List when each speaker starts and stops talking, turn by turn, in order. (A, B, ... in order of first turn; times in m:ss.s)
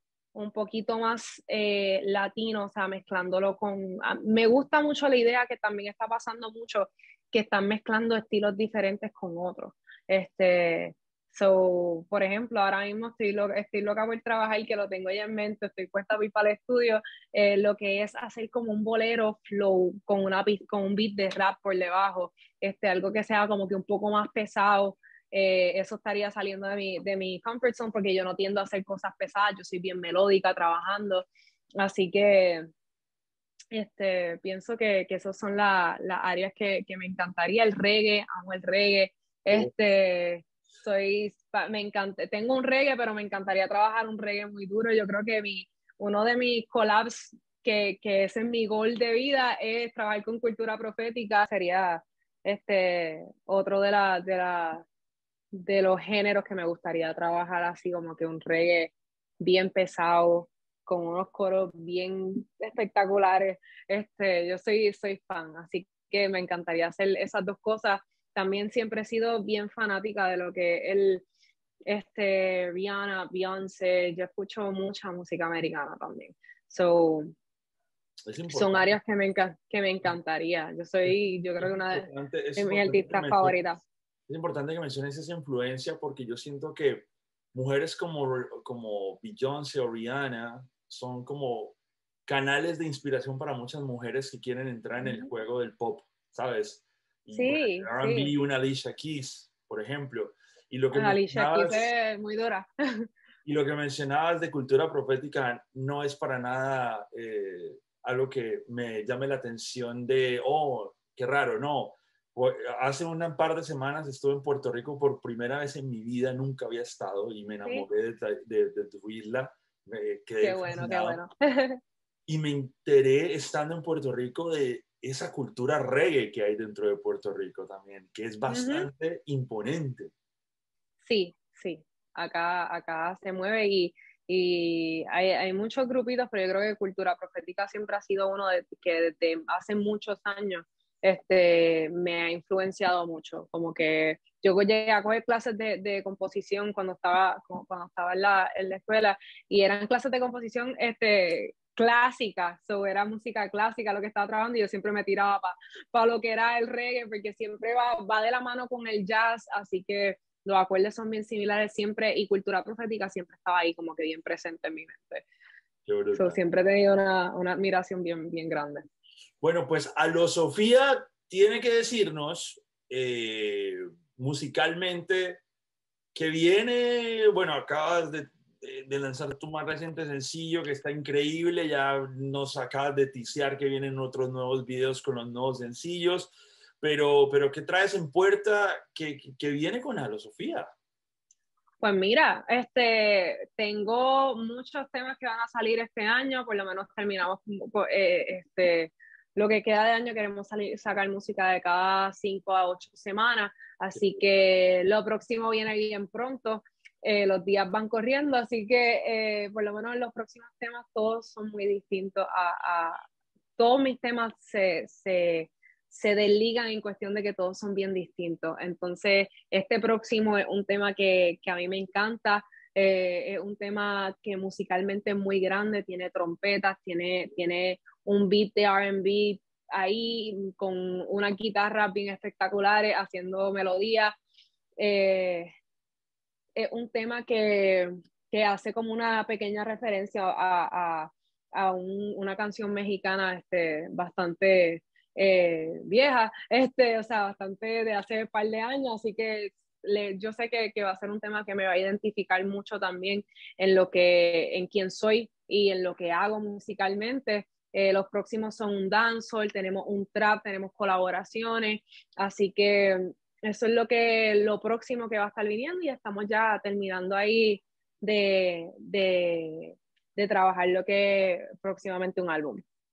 0:00.3-0:32.7 A
0:33.7-0:54.9 A
0:55.5-1:11.2 A
1:11.9-1:17.3 A
1:18.3-1:18.9 B
1:18.5-1:23.8 A
1:21.1-1:23.6 B
1:24.3-1:41.9 B
1:35.0-1:35.3 A
1:37.4-1:38.3 A
1:40.9-1:43.1 A
1:43.4-2:01.2 B
2:00.4-2:01.8 A
2:02.3-2:10.1 B
2:08.5-2:08.9 A
2:11.0-2:45.3 A
2:45.9-2:46.4 B
2:46.2-2:48.8 A
2:49.4-2:55.4 B
2:56.1-3:10.7 B
3:11.8-3:33.0 A
3:33.6-3:54.2 A
3:54.8-3:55.5 A
3:56.6-4:32.6 A